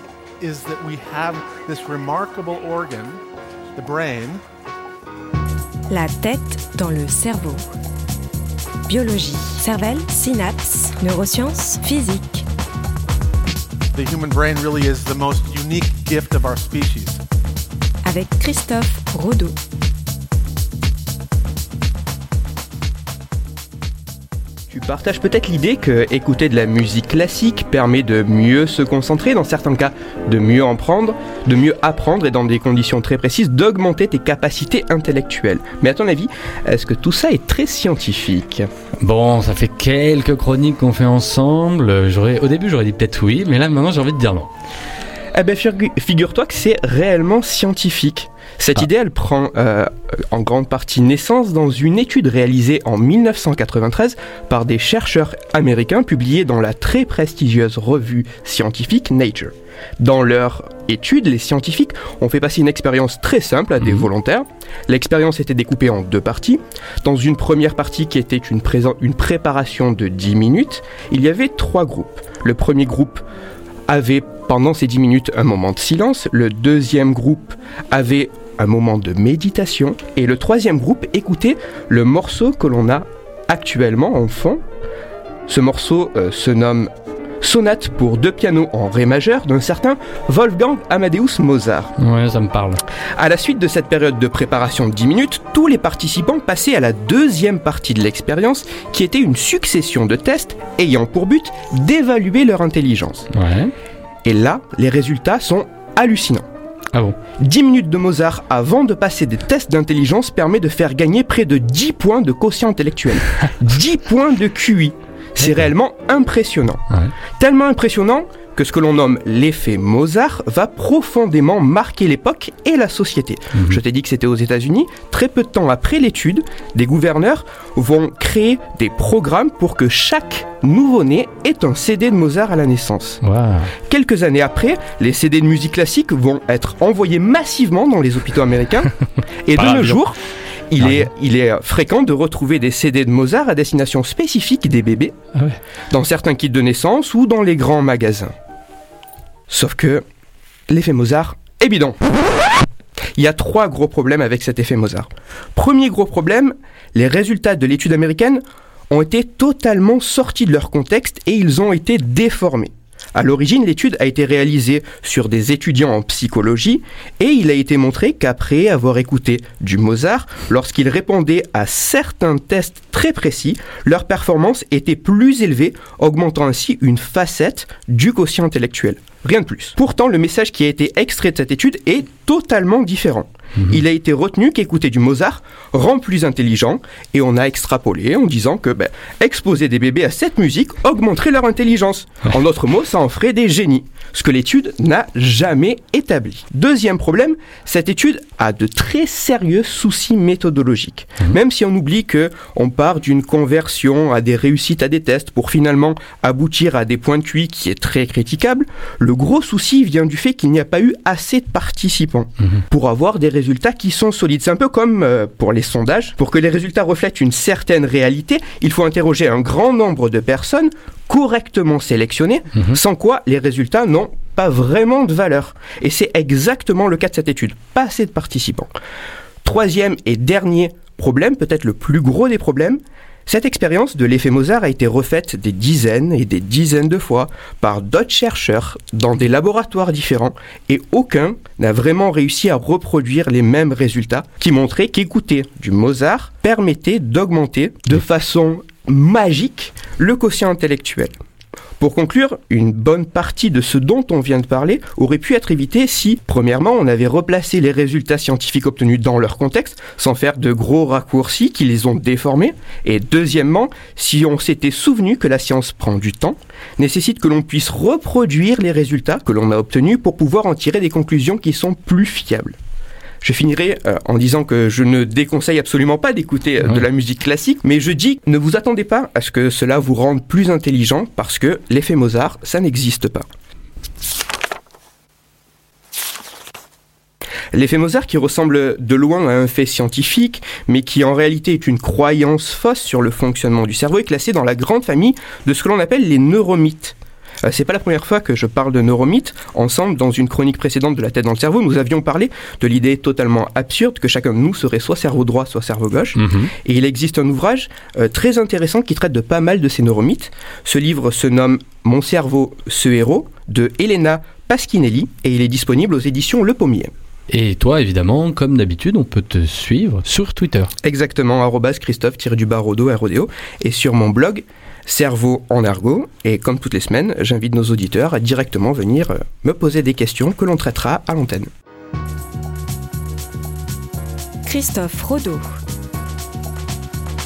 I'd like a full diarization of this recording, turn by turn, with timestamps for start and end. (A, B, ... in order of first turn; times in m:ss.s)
0:00.4-0:03.2 A
0:03.7-0:04.4 A
0:05.9-0:07.6 B
0:08.9-0:12.4 B
0:13.9-0:17.2 A
0:18.0-0:19.5 B
0:24.7-0:38.7 C
0:39.0-0:44.5 D
0:45.3-1:13.2 C
1:13.9-1:24.6 C
1:25.5-1:31.9 C
1:32.0-1:32.8 D
1:33.2-1:43.3 C
1:43.3-1:43.7 D
1:44.2-1:46.4 C
1:47.4-1:56.8 C
1:57.4-2:13.2 C
2:13.2-2:13.7 D
2:13.9-2:18.9 C
2:19.4-2:20.2 C
2:19.6-2:20.0 D
2:20.7-2:25.1 C
2:25.9-2:28.3 C
2:29.5-2:30.0 C
2:30.7-2:32.0 C
2:33.1-3:48.7 C
3:49.4-4:11.2 C
4:11.8-4:32.5 C
4:33.2-4:43.3 C
4:47.5-5:16.9 C
5:06.2-5:06.5 D
5:17.3-5:20.7 D
5:20.8-5:31.5 C
5:34.4-5:35.4 B